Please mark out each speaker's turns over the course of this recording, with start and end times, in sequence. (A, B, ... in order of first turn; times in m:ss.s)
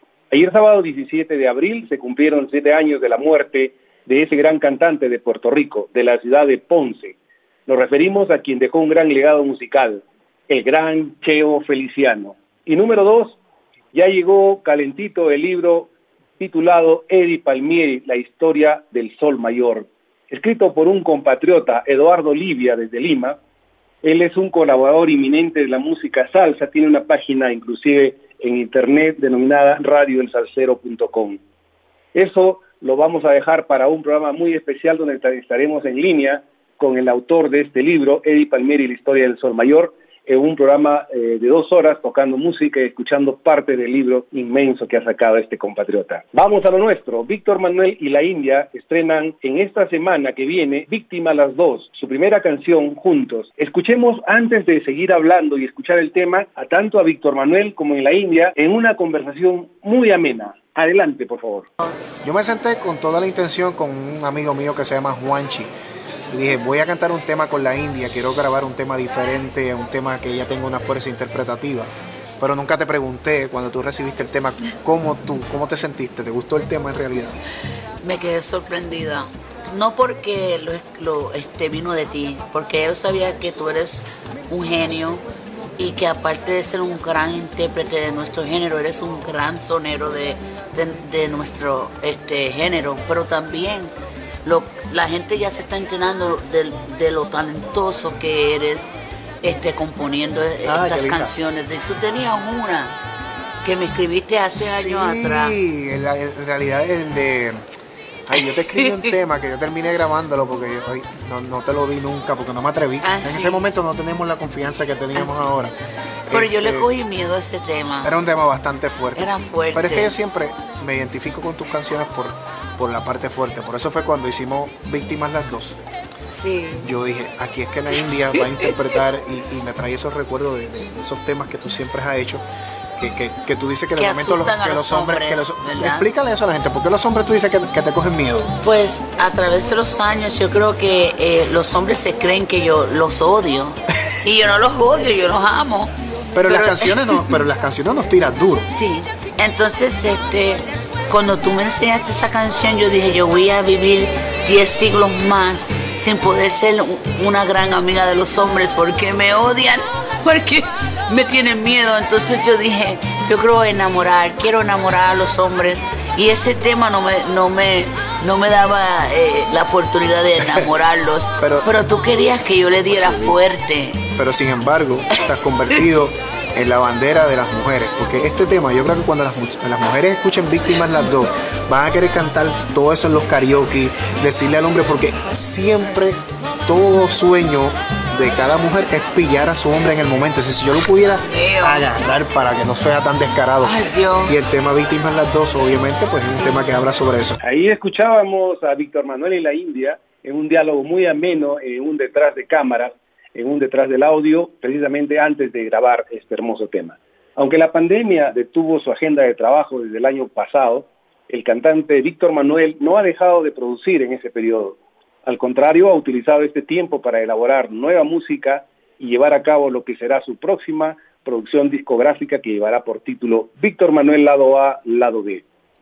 0:00.3-0:13.4 A
0:13.9-0:23.4 A
0:24.0-0:31.4 A
0:32.1-1:01.7 A
1:02.2-1:05.7 B
1:06.3-1:17.4 B
1:18.0-1:25.2 C
1:25.8-1:33.9 C
1:34.4-1:43.0 C
1:40.6-1:41.3 B
1:43.6-1:45.6 C
1:44.5-1:47.6 B
1:48.3-1:55.7 B
1:48.5-1:49.1 C
1:53.0-1:53.7 C
1:55.1-1:55.5 C
1:56.3-1:56.9 B
1:56.3-1:58.2 C
1:58.0-2:05.8 B
1:59.1-2:00.2 C
2:06.3-2:06.9 C
2:06.8-2:12.4 B
2:08.4-2:08.6 C
2:13.0-2:18.5 B
2:13.9-2:16.1 C
2:18.6-2:27.4 C
2:26.3-2:28.6 B
2:28.7-2:54.1 C
2:50.4-2:50.7 B
2:51.4-2:51.7 B
2:52.8-2:53.4 B
2:54.2-3:17.4 B
2:55.2-2:55.9 C
3:11.2-3:11.9 C
3:13.6-3:14.4 C
3:16.2-3:16.7 C
3:17.4-3:45.4 A